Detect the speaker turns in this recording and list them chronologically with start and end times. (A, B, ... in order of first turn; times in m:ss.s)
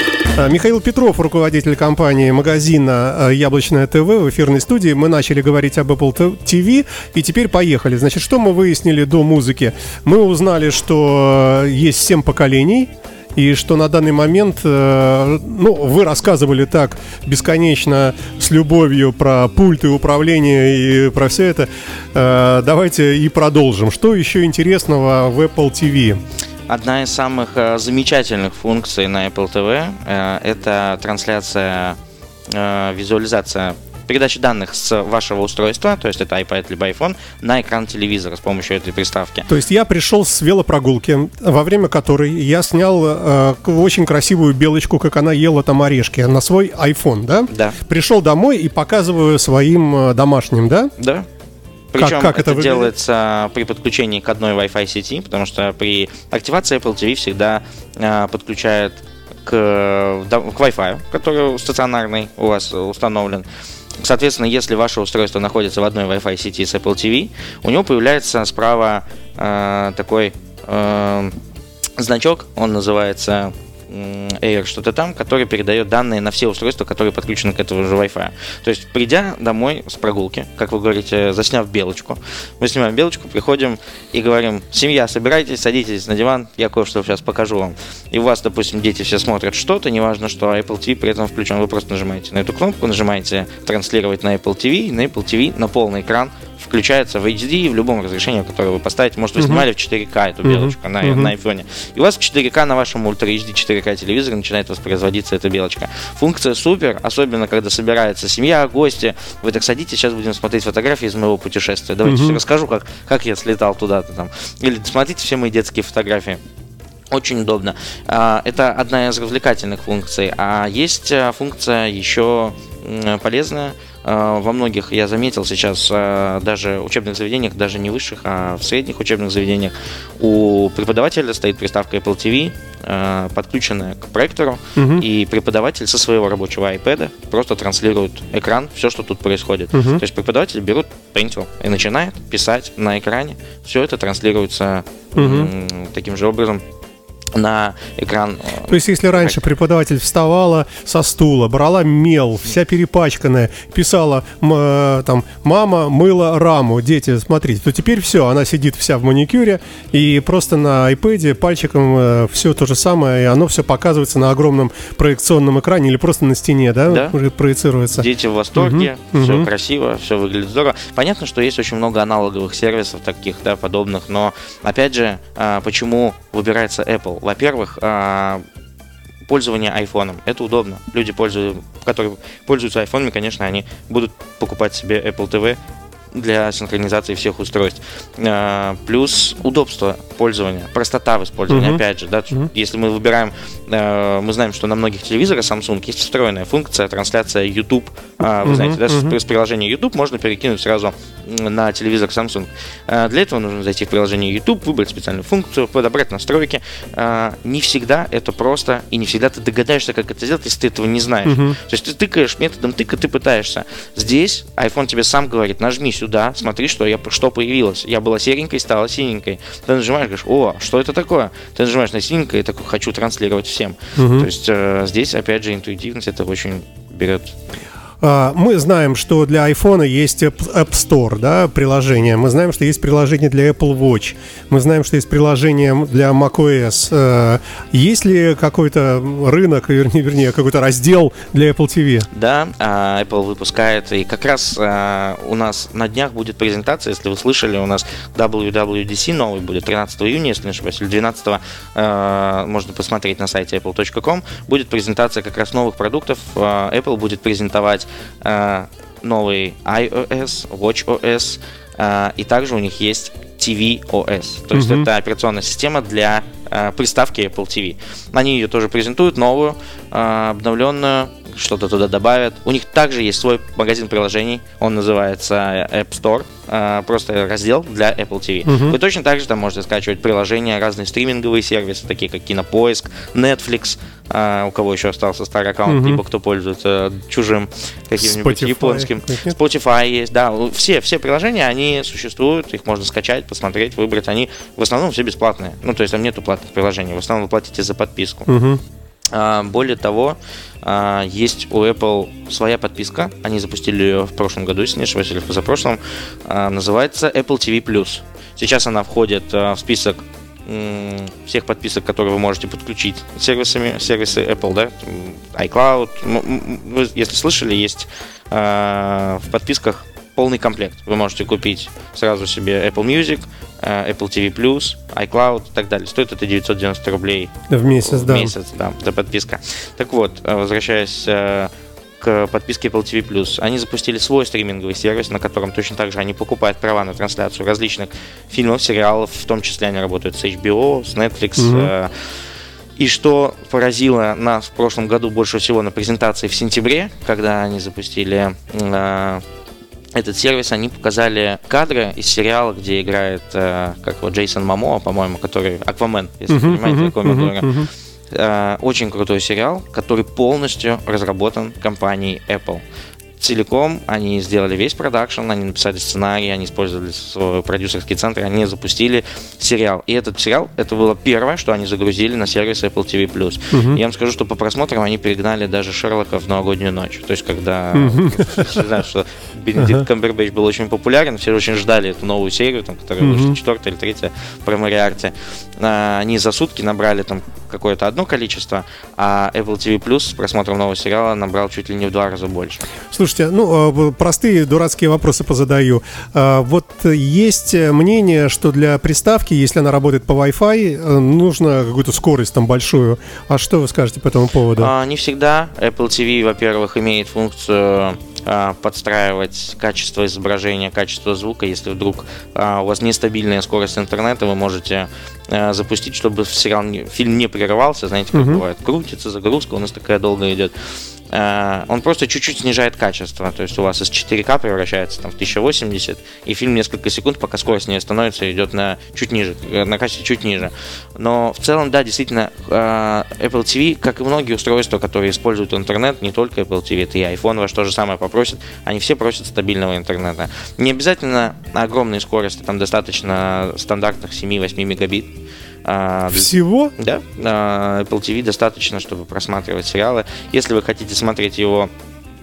0:00.4-0:26.2 A
0:26.7-0:32.0 B
0:32.5-0:39.5 B
0:39.5-0:50.9 A
0:47.5-0:47.8 B
0:51.0-0:51.3 B
0:51.9-1:03.5 B
0:52.0-0:52.9 A
1:04.0-1:11.4 B
1:12.0-1:56.4 B
1:39.4-1:39.6 A
1:40.4-1:41.3 A
1:52.0-1:52.4 A
1:57.1-2:26.6 B
2:14.8-2:15.0 A
2:19.7-2:20.0 A
2:25.2-2:25.5 A
2:27.3-2:29.4 B
2:28.7-2:49.5 A
2:46.9-2:47.2 B
2:47.9-2:58.4 B
2:59.3-3:05.6 B
3:06.1-3:47.4 B
3:11.5-3:11.8 A
3:18.4-3:19.2 A
3:31.2-3:31.6 A
3:44.0-3:44.3 A
3:48.0-4:02.1 A
4:02.1-4:58.3 B
4:24.5-4:24.9 A
4:38.5-4:38.8 A
4:45.7-4:46.0 A
4:48.0-4:49.4 A
4:58.3-4:58.6 A
4:59.1-5:41.9 B
5:27.5-5:28.3 A
5:41.4-5:41.7 A
5:42.8-5:49.2 B
5:50.0-6:02.6 B
5:56.3-5:57.7 A
6:03.2-6:32.6 B
6:13.5-6:13.8 A
6:17.7-6:18.6 A
6:19.6-6:19.8 A
6:23.0-6:23.4 A
6:32.9-6:44.7 A
6:44.6-7:00.5 B
6:58.1-6:58.4 A
7:01.1-7:25.1 B
7:25.6-7:31.7 B
7:26.1-7:26.7 A